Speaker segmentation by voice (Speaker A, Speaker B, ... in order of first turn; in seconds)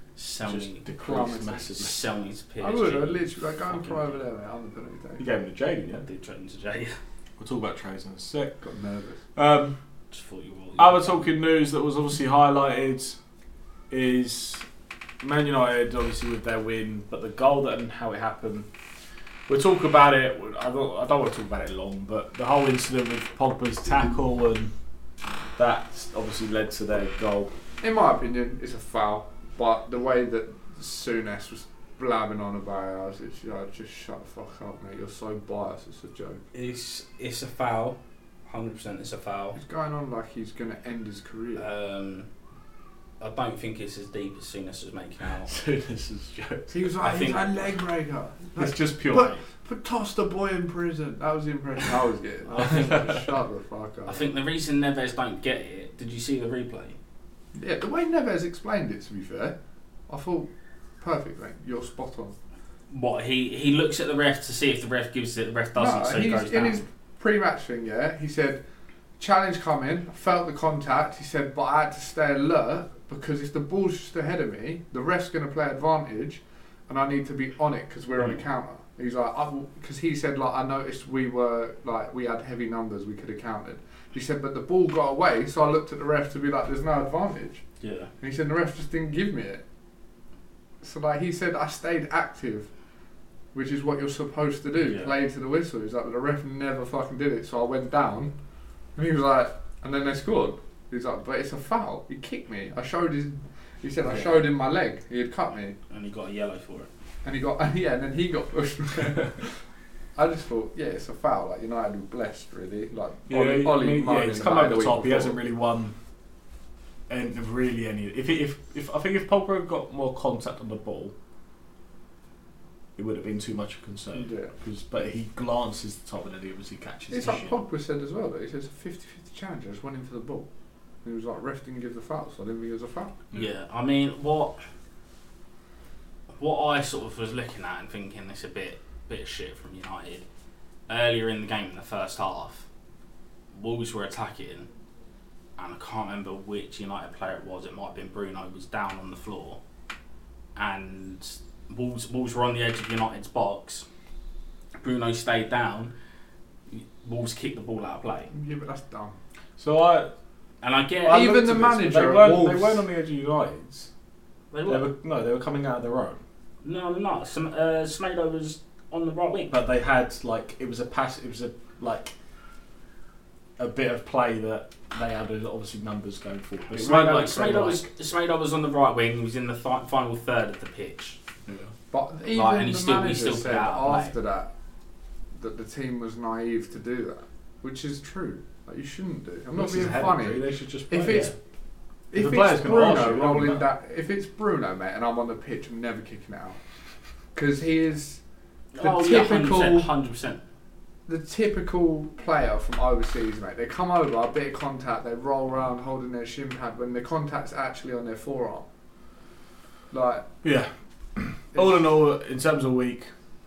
Speaker A: 0.1-0.8, 1.8-4.2, 5.9-7.0, 10.1-11.3, 36.5-39.6, 41.5-42.3, 43.2-45.6, 47.0-47.5, 52.5-53.2, 54.0-57.0, 62.9-66.8, 87.8-88.1, 94.8-95.1, 104.0-104.4, 105.9-106.9, 133.3-134.6, 136.4-140.2, 140.9-142.7, 143.5-144.7, 145.6-149.6, 150.5-153.8, 154.8-155.9, 156.7-158.3, 160.6-161.3, 164.5-164.8, 166.6-169.5, 176.8-181.2, 182.3-184.1, 198.7-200.4
Speaker B: 0.4-2.0, 5.2-6.0, 7.4-8.6, 9.3-9.7, 10.8-13.2, 13.9-14.7, 15.2-18.7, 19.5-24.7, 25.6-27.5, 45.5-46.9, 48.5-49.4, 52.5-53.2, 113.3-115.9, 117.1-121.1, 123.0-127.5, 159.6-160.1, 161.0-163.9, 164.7-166.2, 169.5-172.1, 173.6-177.9, 181.4-181.7, 189.5-191.3, 192.1-193.6, 210.4-213.1
Speaker C: 1.0-1.7, 2.6-5.2, 8.6-9.2, 27.8-36.4, 39.5-41.6, 46.7-54.2, 57.5-59.5, 60.1-62.4, 65.8-68.6, 69.2-87.6, 88.2-89.6, 90.8-92.7, 93.5-98.3, 99.0-105.8, 107.2-109.6, 110.2-115.4, 124.1-124.5, 127.1-130.5, 131.0-133.2, 158.3-159.2, 161.1-162.8, 181.9-184.5, 185.3-191.3, 192.1-196.6, 197.3-198.2, 198.8-199.9, 201.1-208.7, 209.9-210.4